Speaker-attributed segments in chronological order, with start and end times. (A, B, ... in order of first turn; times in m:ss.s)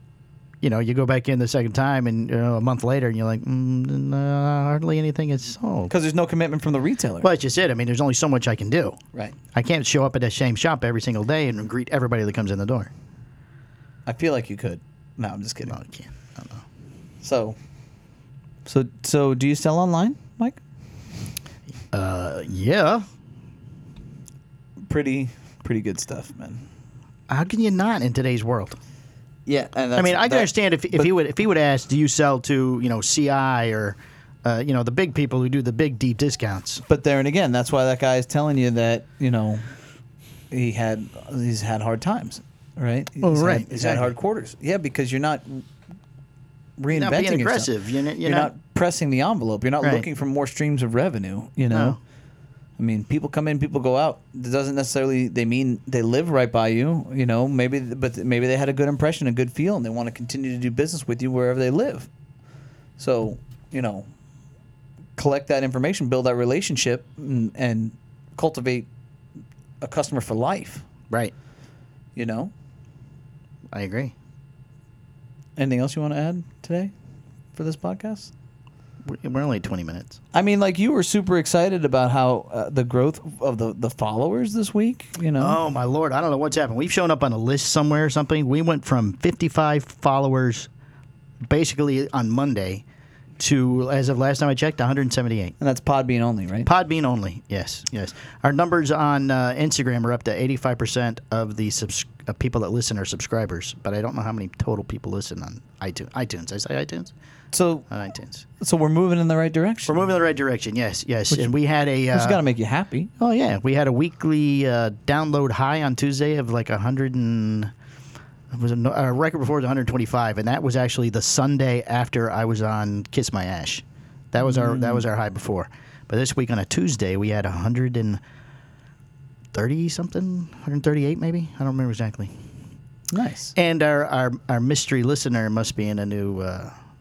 0:00.6-0:05.9 A
0:05.9-0:07.3 B
0:07.2-0:09.0 A
0:09.5-0:12.9 A
0:14.0-0:15.8 B
0:15.7-0:16.6 A
0:17.2-0:17.6 B
0:18.6-0:20.6 B
0:21.9-0:23.0 A
0:24.8-0:26.6 B
0:27.3-0:28.8 A
0:29.4-0:31.1 B
0:30.0-0:36.8 A
0:36.9-0:39.7 B
0:40.5-0:45.6 B
0:43.2-0:44.1 A
0:46.8-0:47.7 B
0:46.9-0:48.5 A
0:48.2-0:52.0 B
0:51.7-0:52.0 A
0:52.8-1:02.1 B
1:03.0-1:04.1 B
1:05.2-1:08.9 B
1:09.8-1:10.8 B
1:12.2-1:12.5 B
1:13.7-1:14.1 A
1:15.6-1:16.9 B
1:17.5-1:18.3 B
1:19.0-1:20.2 A
1:20.3-1:25.6 B
1:25.4-1:30.7 A
1:31.4-1:32.8 A
1:33.4-1:35.5 A
1:35.6-1:36.7 B
1:36.6-1:47.1 A
1:47.5-1:47.8 B
1:47.9-1:48.4 A
1:48.6-1:50.0 B
1:49.8-1:52.4 A
1:52.1-1:53.1 B
1:53.2-1:57.7 A
1:58.5-2:08.2 A
2:04.4-2:05.0 B
2:09.5-2:12.3 A
2:13.1-2:13.5 B
2:13.5-2:16.7 A